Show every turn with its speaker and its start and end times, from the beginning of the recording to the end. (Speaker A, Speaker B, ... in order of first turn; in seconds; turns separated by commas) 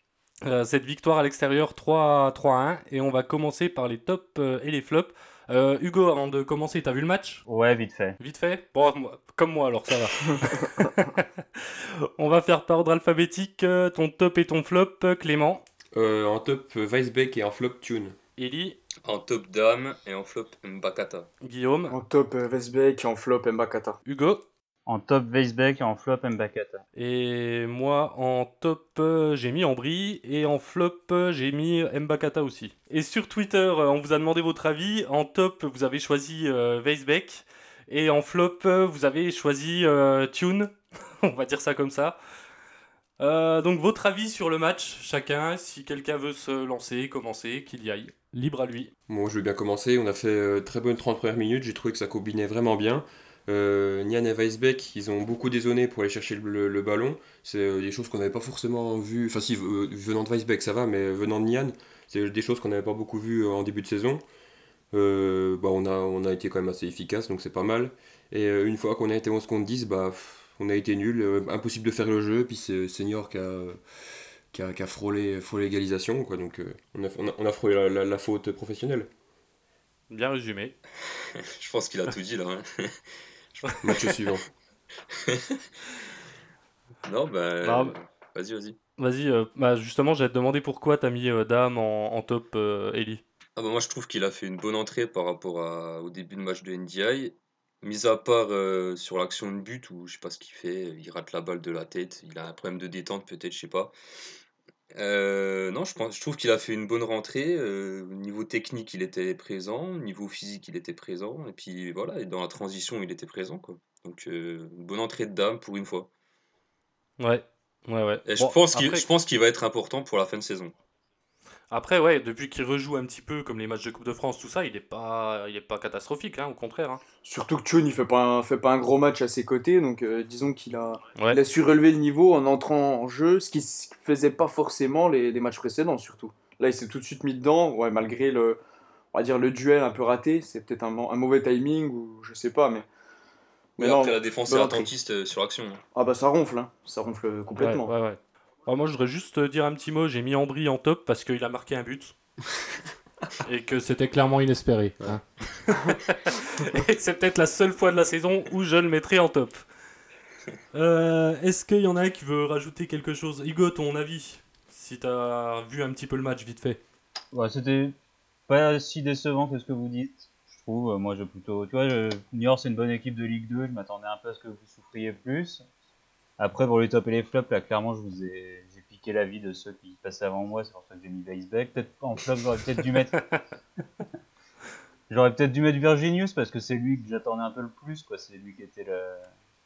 Speaker A: 0.4-7.4, Speaker B: 7.5-8.2, Speaker A: 8.2-15.6, Speaker C: 15.9-18.2, Speaker A: 18.4-18.8, Speaker D: 19.0-21.3, Speaker A: 21.4-22.0, Speaker E: 21.9-24.0, Speaker A: 24.1-24.4, Speaker B: 24.9-26.8, Speaker A: 27.0-42.2, Speaker A: 43.2-48.9, Speaker C: 49.1-64.2, Speaker C: 64.9-73.8, Speaker C: 74.5-79.1, Speaker A: 80.1-80.8, Speaker D: 81.2-83.0, Speaker D: 83.6-84.0, Speaker C: 83.8-84.5, Speaker D: 85.1-85.6, Speaker D: 87.0-88.8, Speaker A: 87.6-88.0, Speaker A: 89.0-93.2, Speaker D: 93.6-103.9, Speaker D: 104.9-116.1, Speaker A: 117.2-119.1, Speaker D: 118.3-120.7, Speaker A: 121.7-127.0, Speaker E: 127.2-138.6, Speaker E: 139.1-142.9, Speaker E: 143.8-144.9, Speaker D: 143.8-145.8, Speaker E: 145.9-147.9, Speaker A: 147.6-152.2, Speaker A: 153.4-159.6, Speaker A: 160.7-166.8, Speaker B: 167.3-168.0, Speaker B: 168.5-175.6, Speaker B: 176.4-183.4, Speaker B: 185.1-189.3